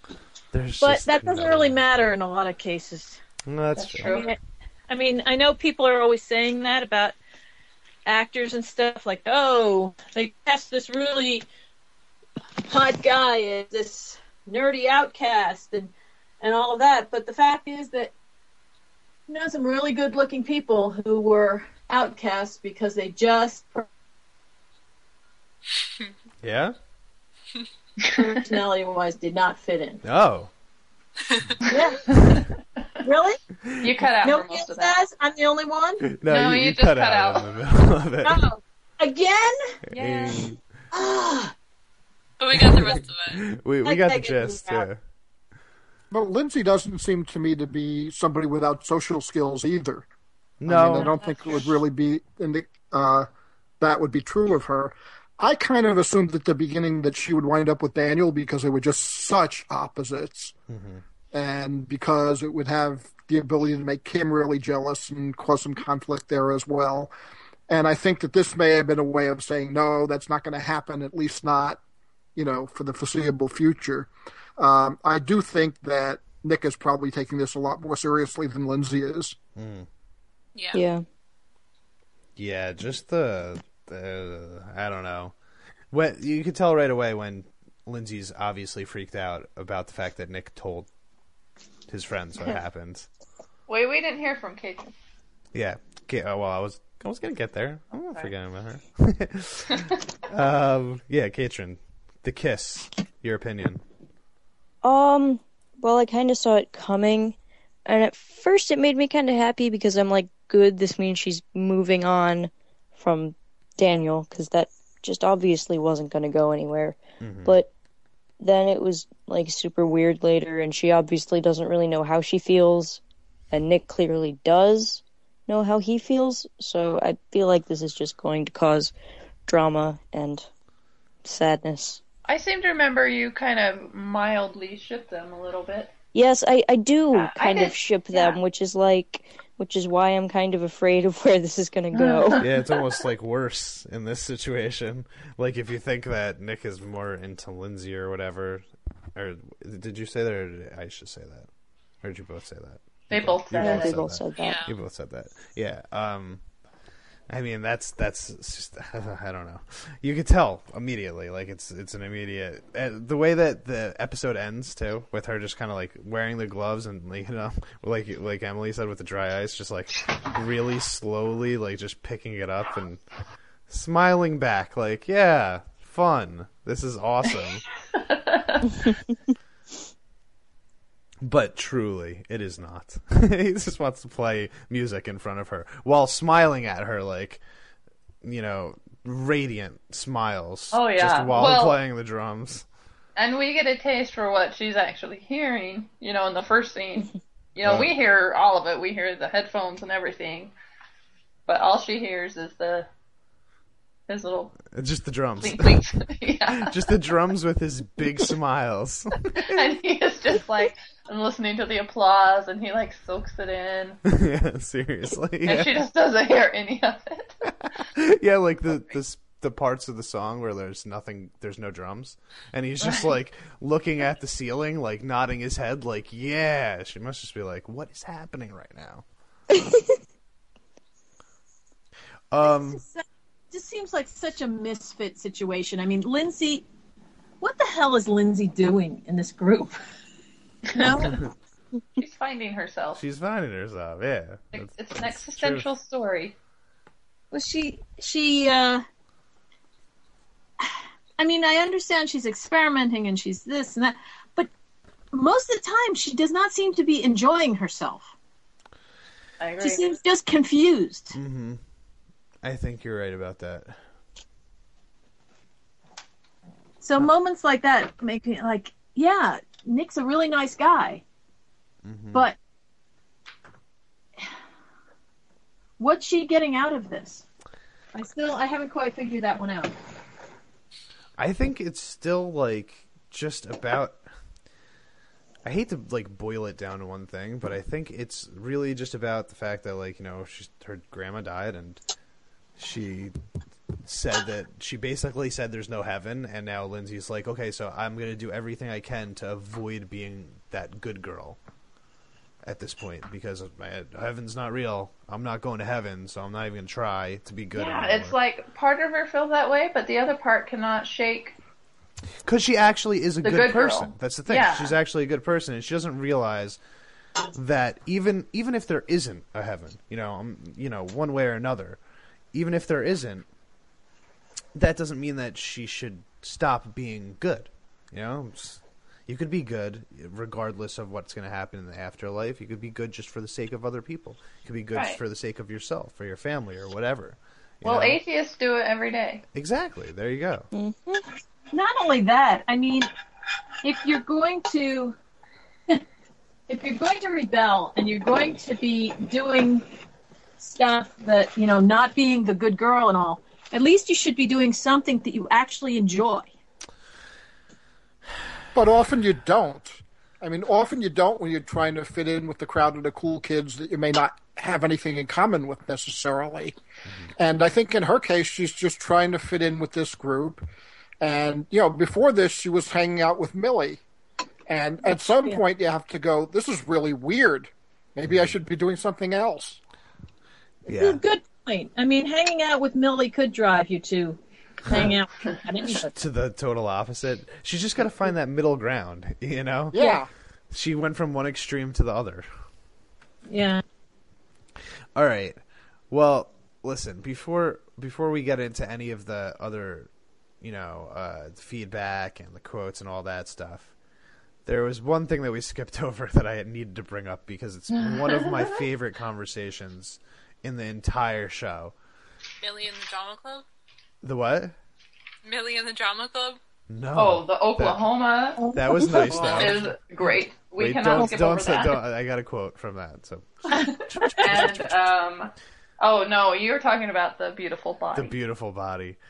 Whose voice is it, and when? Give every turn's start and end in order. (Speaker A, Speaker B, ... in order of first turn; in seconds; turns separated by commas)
Speaker A: 0.5-1.8, Speaker B: 0.8-3.2, Speaker A: 3.5-4.1, Speaker C: 3.8-4.3, Speaker B: 4.0-4.4, Speaker B: 4.9-7.2, Speaker B: 8.1-11.4, Speaker B: 12.6-18.1, Speaker B: 19.3-23.9, Speaker A: 26.4-26.8, Speaker B: 28.1-30.0, Speaker A: 30.0-30.5, Speaker B: 31.6-32.0, Speaker C: 31.7-32.4, Speaker B: 33.0-33.4, Speaker C: 33.8-34.9, Speaker B: 34.2-36.0, Speaker A: 36.1-38.4, Speaker C: 36.3-37.5, Speaker B: 38.2-39.8, Speaker A: 39.9-40.6, Speaker C: 39.9-40.4, Speaker B: 40.9-41.5, Speaker D: 42.4-43.4, Speaker A: 42.5-45.0, Speaker B: 43.8-44.9, Speaker E: 46.1-50.0, Speaker A: 50.6-51.2, Speaker E: 50.6-53.3, Speaker B: 51.0-51.6, Speaker E: 53.8-60.5, Speaker A: 60.7-61.0, Speaker E: 61.3-67.1, Speaker E: 67.7-71.8, Speaker E: 72.3-79.3, Speaker A: 79.5-79.9, Speaker D: 80.5-80.8, Speaker F: 80.7-81.0, Speaker A: 82.3-85.3, Speaker A: 85.9-90.9, Speaker A: 91.9-93.1, Speaker C: 93.7-94.9, Speaker A: 95.5-103.8, Speaker F: 104.8-117.7, Speaker A: 117.2-117.6, Speaker F: 118.4-128.9, Speaker F: 129.4-130.5, Speaker F: 131.2-132.0, Speaker C: 132.2-135.9, Speaker F: 136.1-142.4, Speaker C: 137.1-138.4, Speaker C: 141.9-143.0, Speaker A: 142.4-151.5, Speaker A: 152.0-156.4, Speaker C: 153.1-154.0, Speaker F: 153.6-154.7, Speaker D: 154.3-154.7, Speaker A: 157.3-173.0, Speaker A: 173.7-177.6, Speaker C: 178.0-178.7, Speaker A: 181.2-187.4, Speaker A: 188.2-192.7, Speaker C: 190.7-191.8, Speaker C: 193.2-200.5, Speaker A: 197.6-197.9, Speaker C: 201.5-202.9, Speaker C: 204.1-204.6, Speaker A: 204.7-205.8, Speaker C: 205.4-206.9, Speaker A: 206.6-209.7, Speaker C: 209.3-214.0, Speaker A: 214.1-215.8, Speaker C: 215.4-217.3, Speaker A: 217.6-229.0, Speaker C: 222.8-223.1, Speaker A: 232.3-232.8, Speaker B: 232.4-236.6, Speaker B: 237.4-239.8, Speaker B: 240.7-241.2, Speaker C: 242.0-243.0, Speaker A: 242.9-245.7, Speaker C: 244.5-246.3, Speaker B: 247.3-248.8, Speaker B: 250.6-254.5, Speaker B: 255.1-258.1, Speaker C: 259.4-259.9, Speaker B: 259.6-261.2, Speaker A: 261.1-261.6, Speaker A: 262.4-263.8, Speaker B: 266.8-271.0, Speaker A: 271.8-272.3, Speaker B: 275.8-277.2, Speaker B: 277.9-279.7, Speaker A: 281.2-284.0, Speaker A: 285.4-291.8, Speaker A: 292.6-293.1, Speaker A: 293.8-301.4, Speaker A: 302.4-308.1, Speaker C: 307.6-311.3, Speaker A: 312.2-316.6, Speaker C: 313.2-314.8, Speaker A: 317.3-321.8, Speaker A: 322.3-323.2, Speaker A: 324.5-338.0, Speaker C: 334.7-335.0, Speaker C: 337.6-339.2, Speaker A: 339.3-340.5, Speaker F: 340.5-341.0, Speaker B: 341.5-342.9, Speaker B: 343.6-344.9, Speaker B: 346.5-349.6, Speaker B: 350.4-356.3, Speaker E: 358.5-366.6, Speaker E: 367.2-370.4, Speaker E: 371.0-373.8, Speaker E: 374.5-379.6, Speaker B: 374.8-375.4, Speaker A: 378.1-378.4, Speaker B: 380.6-385.9, Speaker A: 380.7-381.0, Speaker A: 384.6-384.9, Speaker A: 385.7-389.8, Speaker E: 389.7-390.1, Speaker B: 389.7-390.0, Speaker A: 390.5-392.3, Speaker B: 393.3-393.6, Speaker A: 394.9-395.4, Speaker A: 395.9-399.9, Speaker A: 400.4-403.7, Speaker A: 404.4-411.7, Speaker C: 407.7-408.6, Speaker D: 412.4-413.4, Speaker A: 414.0-414.6, Speaker D: 415.2-416.4, Speaker A: 416.7-417.8, Speaker C: 416.9-418.4, Speaker B: 418.4-419.5, Speaker A: 418.5-419.7, Speaker C: 419.0-421.8, Speaker A: 420.6-424.8, Speaker C: 423.5-428.1, Speaker A: 427.9-429.0